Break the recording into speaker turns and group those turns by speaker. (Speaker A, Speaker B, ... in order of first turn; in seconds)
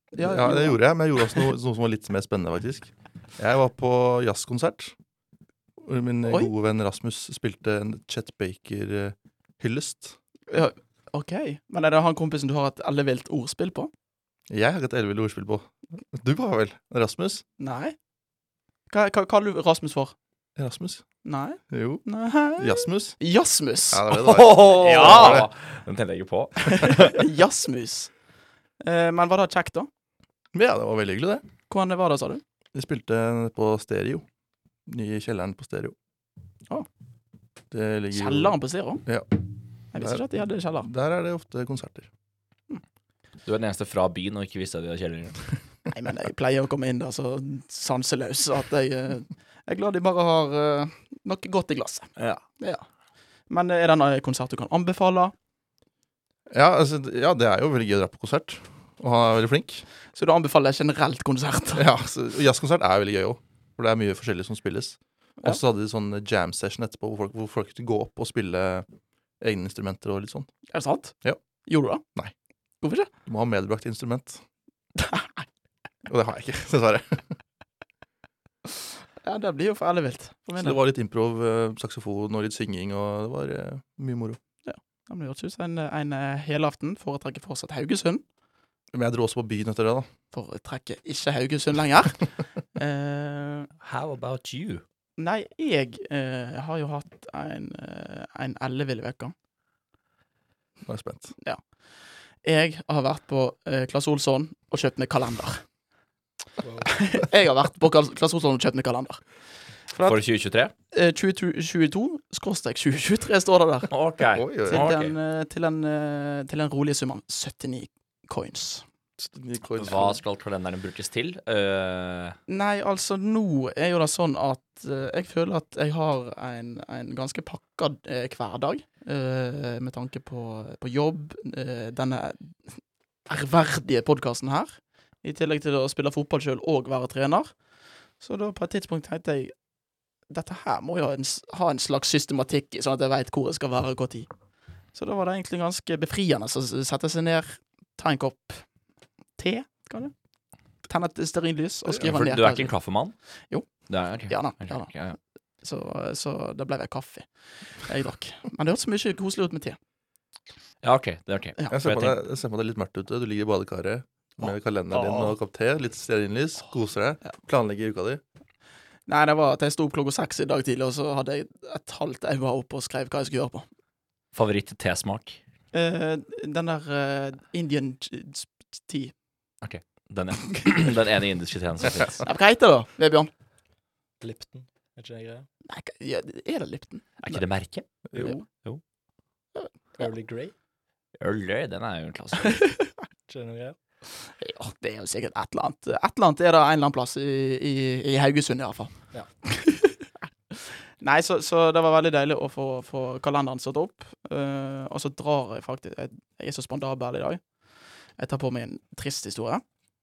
Speaker A: 0.1-0.8, 10.5-13.9, 17.6-17.9, 18.9-20.1, 21.2-24.0, 24.8-25.4, 26.7-28.1, 28.8-29.9, 31.7-32.4, 38.1-39.0, 39.9-40.9, 45.9-52.9, 53.5-55.3, 60.1-61.8, 70.7-72.0, 72.8-73.1, 75.0-75.4, 79.2-80.8, 84.7-88.2, 90.3-93.7, 95.2-99.3, 102.4-105.6, 106.8-109.2, 109.9-110.2, 110.9-113.9, 114.7-118.8, 122.5-137.5, 138.2-139.5, 140.3-144.3, 144.9-148.7, 149.4-150.1, 150.9-152.7, 154.3-154.9, 155.6-159.8, 164.9-165.3, 169.1-173.7, 175.7-179.1, 182.2-183.3, 185.7-187.4, 188.2-188.4, 189.6-190.0, 194.3-198.9, 199.5-200.0, 200.5-207.4, 208.2-209.6
Speaker B: 0.2-4.9, 5.8-10.2, 14.5-17.4, 20.6-21.1, 21.7-22.0, 22.6-23.2, 23.9-25.5, 30.5-31.4, 32.7-34.2, 34.9-36.0, 37.7-39.3, 40.0-40.3, 40.8-42.1, 56.5-59.9, 61.8-68.8, 69.4-70.5, 73.2-74.4, 76.1-77.3, 80.6-84.4, 88.9-90.1, 100.9-101.3, 114.3-114.9, 119.2-120.2, 161.7-168.2
Speaker C: 24.1-27.2, 43.5-45.4, 52.2-52.4, 93.8-94.8, 110.0-110.7, 113.9-115.1, 119.8-122.4, 151.9-153.2, 153.9-155.2, 160.8-162.2, 174.3-175.4, 179.6-182.2, 187.2-188.8, 191.2-192.7
Speaker D: 106.6-106.9, 184.2-185.5, 190.0-190.5, 193.3-193.8